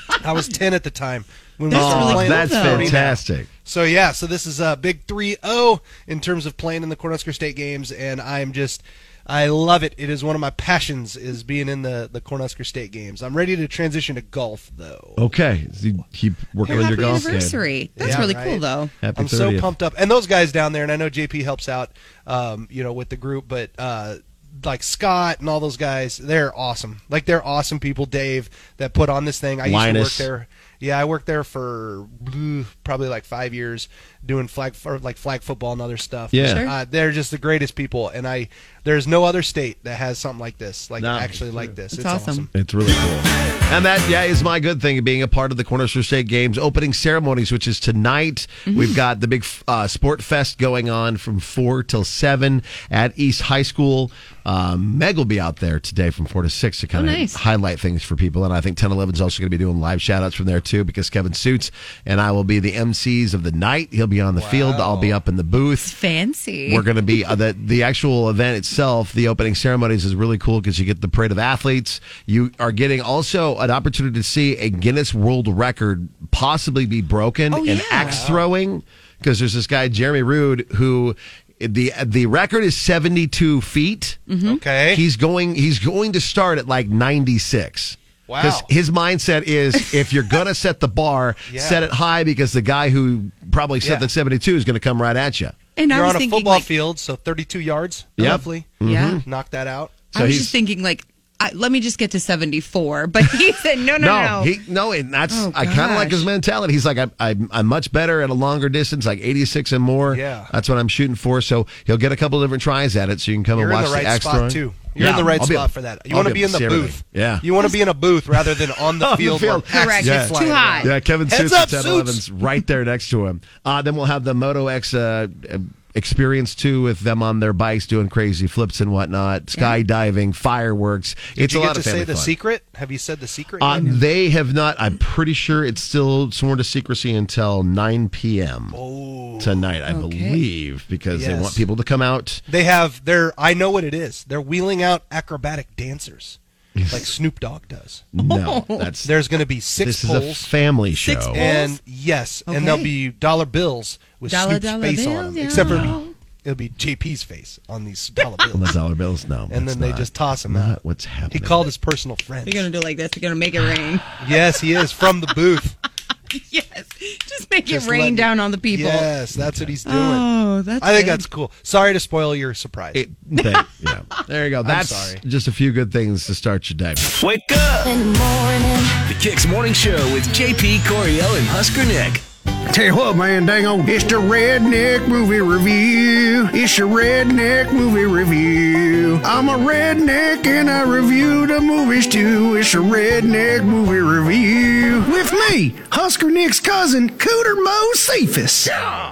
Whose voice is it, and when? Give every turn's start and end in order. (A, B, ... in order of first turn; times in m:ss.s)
0:00.2-0:15.2 A
0:01.7-0:03.0 B
0:01.7-0:03.5 C
0:15.2-0:18.3 C
0:16.6-0:18.9 B
0:16.7-0:17.4 A
0:18.0-0:18.6 A
0:19.0-0:19.7 C
0:19.1-0:42.5 A
0:29.6-0:30.3 C
0:36.3-0:36.7 C
0:36.4-0:36.7 B
0:41.0-0:41.7 C
0:41.9-0:42.5 B
0:42.5-1:05.9 C
0:48.7-0:49.0 B
0:56.9-0:57.4 B
1:04.3-1:05.2 A
1:05.8-1:06.8 B
1:06.7-1:24.3 C
1:17.5-1:18.2 B
1:18.0-1:18.5 A
1:24.3-1:24.6 B
1:24.4-1:25.0 A
1:24.9-1:35.6 C
1:28.3-1:28.7 A
1:31.5-1:31.8 A
1:33.8-1:34.1 A
1:35.8-1:36.7 B
1:35.9-1:40.0 A
1:38.2-1:39.2 C
1:38.8-1:39.2 B
1:40.1-1:44.5 B
1:40.1-1:40.5 C
1:44.0-1:57.7 C
1:45.3-1:46.3 B
1:50.1-1:50.5 A
1:53.5-2:02.2 A
1:58.3-2:12.3 C
1:59.7-2:00.9 B
2:09.5-2:09.8 B
2:11.4-2:13.9 A
2:13.6-2:18.8 C
2:18.7-2:19.6 A
2:19.4-2:22.4 C
2:19.9-2:20.4 B
2:21.1-2:21.6 A
2:22.5-2:26.4 A
2:26.7-2:27.1 C
2:26.9-2:28.0 A
2:28.1-2:31.4 C
2:28.2-2:28.9 B
2:29.0-2:30.5 A
2:31.0-2:31.8 B
2:31.3-2:38.7 A
2:32.5-2:32.9 B
2:34.2-2:36.1 B
2:35.5-2:35.9 C
2:38.5-2:41.7 C
2:39.5-2:40.8 A
2:41.3-2:42.7 A
2:42.4-2:44.2 B
2:44.2-2:45.8 A
2:46.3-2:49.1 B
2:47.7-2:50.3 A
2:49.3-2:49.7 C
2:49.8-2:51.2 B
2:50.8-2:53.0 A
2:52.9-2:57.1 C
2:54.6-2:55.2 A
2:57.2-2:57.9 D
2:59.1-3:02.2 D
3:02.7-3:18.7 E